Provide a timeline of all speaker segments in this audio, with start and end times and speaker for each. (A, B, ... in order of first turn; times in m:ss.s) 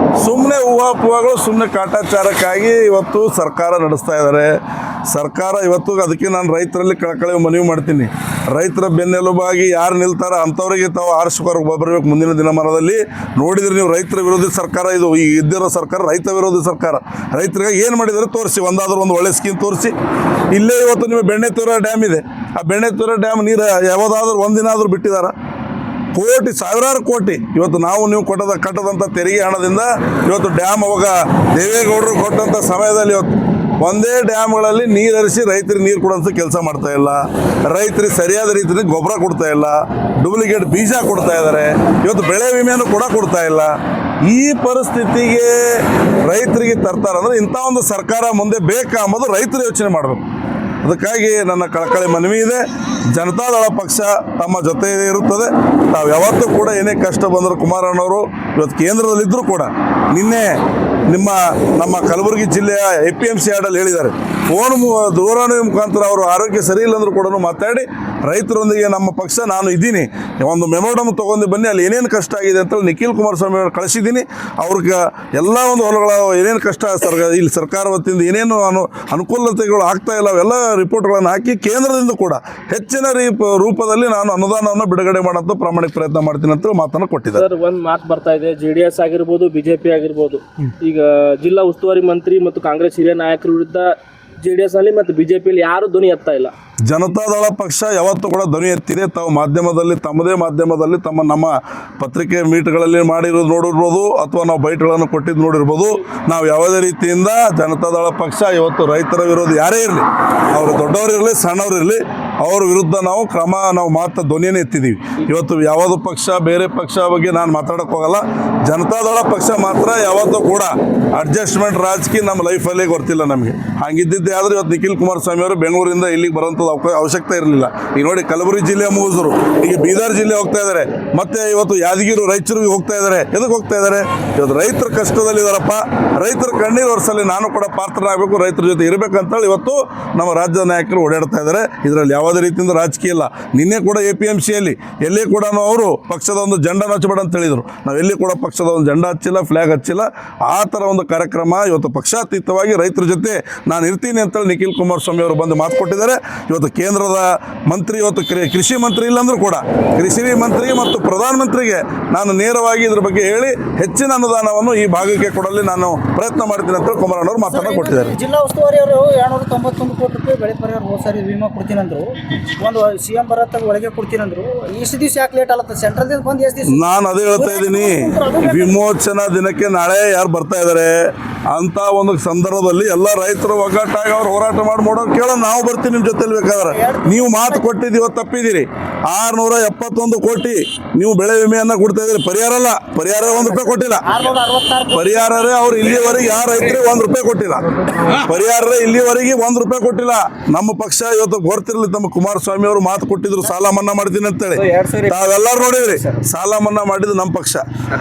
0:00.2-0:19.9 A
0:20.5-0:25.3 A
0:26.1-0:43.7 A
0:44.2-0:50.2 A
0:50.8-1:00.6 A
1:01.1-1:27.5 A
1:27.3-1:36.5 B
1:36.9-2:48.2 A
2:47.5-2:56.8 C
2:56.7-3:14.0 A
2:57.3-2:58.8 C
3:06.7-3:07.6 C
3:13.3-3:15.1 C
3:14.9-3:27.6 A
3:24.6-3:25.3 C